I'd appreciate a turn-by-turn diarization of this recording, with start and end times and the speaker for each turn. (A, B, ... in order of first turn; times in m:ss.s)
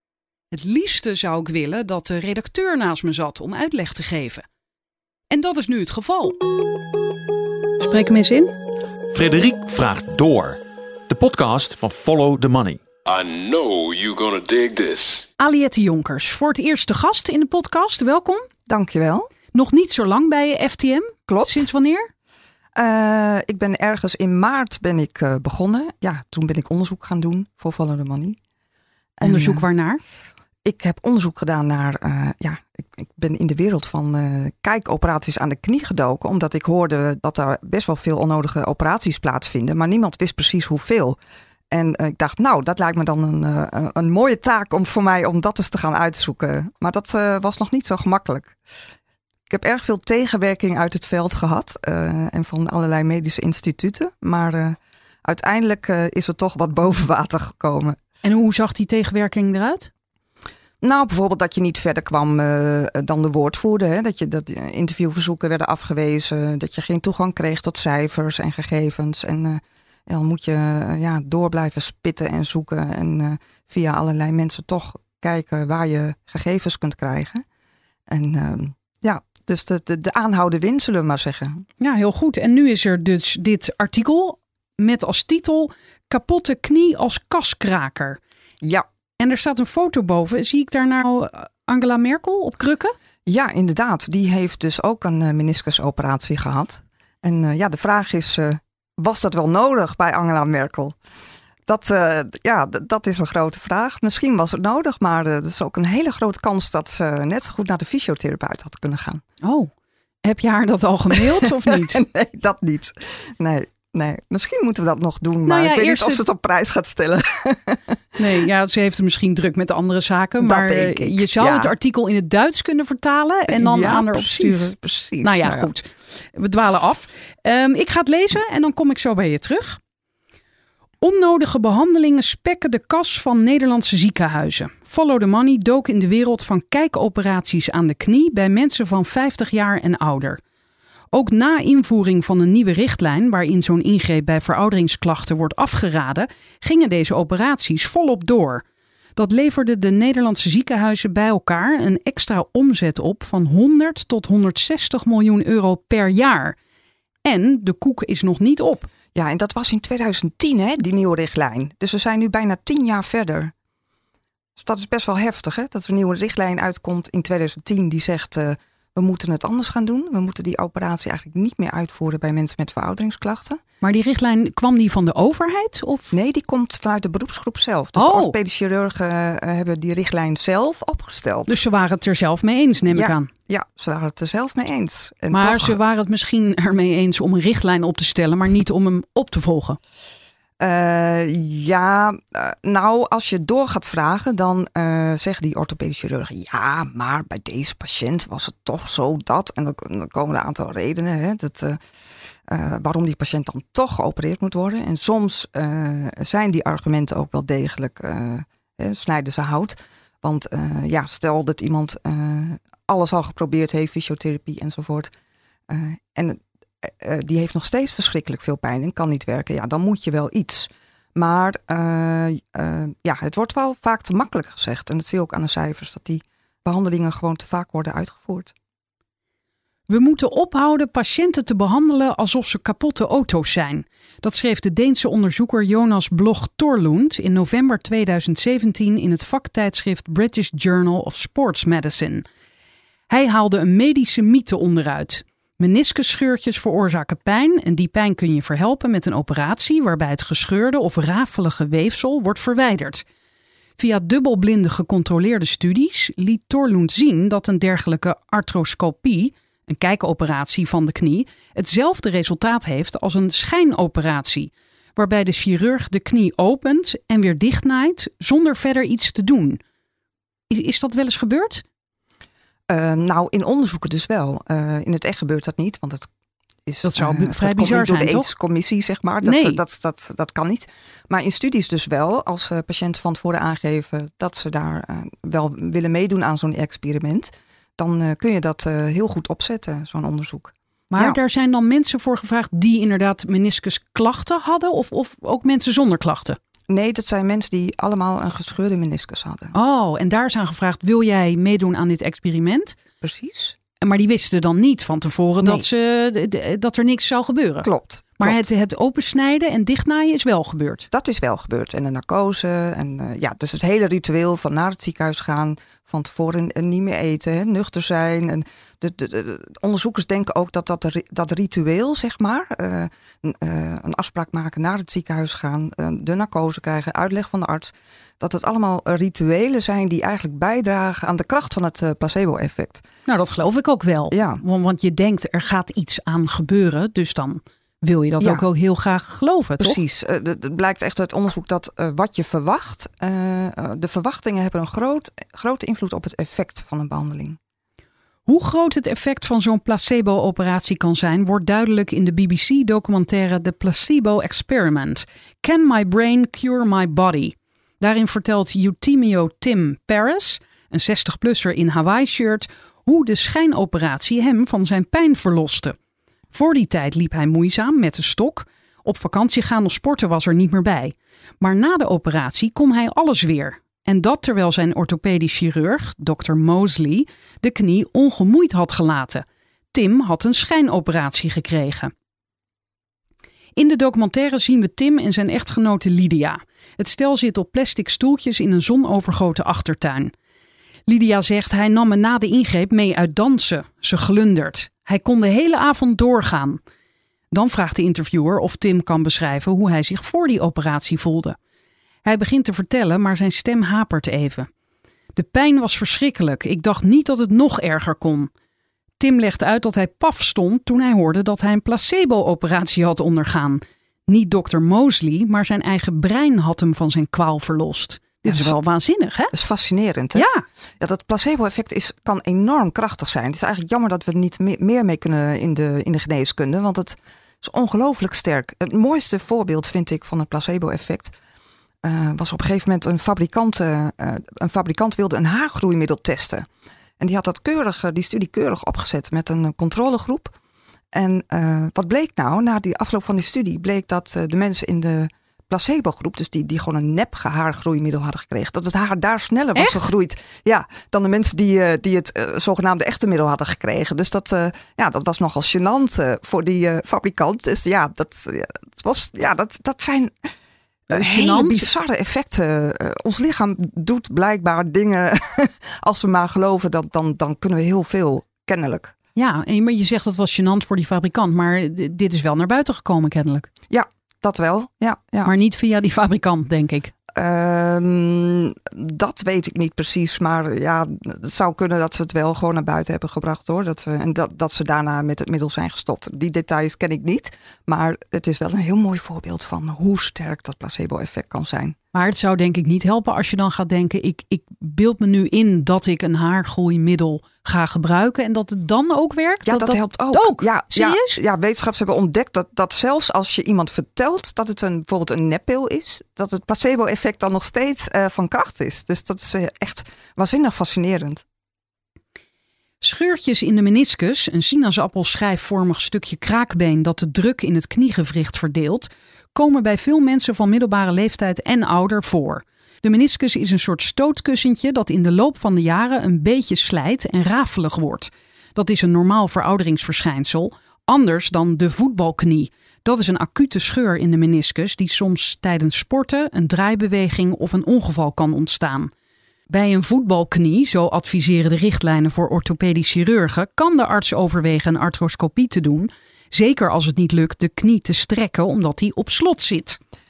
0:00.5-0:04.4 A
0:05.3-0:06.4 A
0:07.8-0:08.5 A
0:09.1-0:12.8 B
0:13.0-0:15.3 C
0:15.4-0:18.5 A
0:18.7-0:19.3 D
0:19.5-0:22.1 A
0:21.3-0:21.7 D
0:22.8-0:28.4 D
0:29.2-0:29.6 D
0:29.2-0:30.0 A
0:30.6-0:41.2 D
0:41.7-0:48.6 D
0:49.5-0:58.0 D
0:58.2-0:59.9 A
1:00.8-1:17.4 D
1:18.1-1:21.7 D
1:21.8-1:28.2 A
1:29.2-1:32.9 A
1:33.2-1:41.0 D
1:41.7-1:49.2 D
1:49.4-1:49.7 A
1:50.2-1:52.0 A
1:51.1-1:58.2 D
1:55.4-1:56.2 A
1:58.2-2:09.8 A
2:00.4-2:01.7 D
2:03.5-2:05.7 D
2:11.0-2:20.4 A
2:21.1-2:28.6 A
2:29.2-2:36.6 A
2:37.2-2:38.9 A
2:39.1-2:43.5 D
2:44.6-2:53.6 D
2:53.8-2:56.1 A
2:56.1-3:01.6 D
2:58.0-2:58.3 A
3:01.5-3:03.3 A
3:02.9-3:05.8 D
3:05.3-3:09.8 A
3:10.6-3:21.8 D
3:22.5-3:35.1 D
3:35.7-3:48.5 D
3:49.9-4:02.2 A
4:03.1-4:13.0 A
4:13.8-4:29.6 A
4:30.5-4:31.6 A
4:32.7-4:36.1 D
4:36.6-4:51.2 D
4:36.8-4:38.3 A
4:39.2-4:39.6 A
4:50.9-4:56.4 A
4:56.7-4:59.5 D
4:59.5-5:02.8 A
5:03.0-5:03.6 D
5:03.8-5:07.7 A
5:07.6-5:08.4 D
5:08.2-5:10.9 A
5:10.9-5:32.8 D
5:33.1-5:39.8 A
5:34.1-5:34.4 D
5:39.6-5:47.4 D
5:48.3-6:05.8 A
6:06.3-6:21.9 A
6:23.6-6:30.1 A
6:30.9-6:36.6 A
6:37.3-6:41.4 A
6:42.0-6:44.5 A
6:45.2-6:48.3 A
6:49.0-6:59.3 A
6:58.2-6:58.5 D
6:59.3-7:00.3 D
7:00.1-7:00.4 A
7:00.8-7:11.1 D
7:11.8-7:16.5 D
7:17.0-7:20.3 D
7:20.9-7:40.3 D
7:29.6-7:29.8 A
7:40.9-7:41.7 A
7:40.9-7:48.9 D
7:49.2-7:53.5 A
7:53.7-7:55.3 D
7:55.2-7:56.9 A
7:57.1-8:11.8 D
8:11.9-8:21.2 A
8:19.4-8:31.2 D
8:32.8-8:58.9 A
8:59.5-9:09.8 A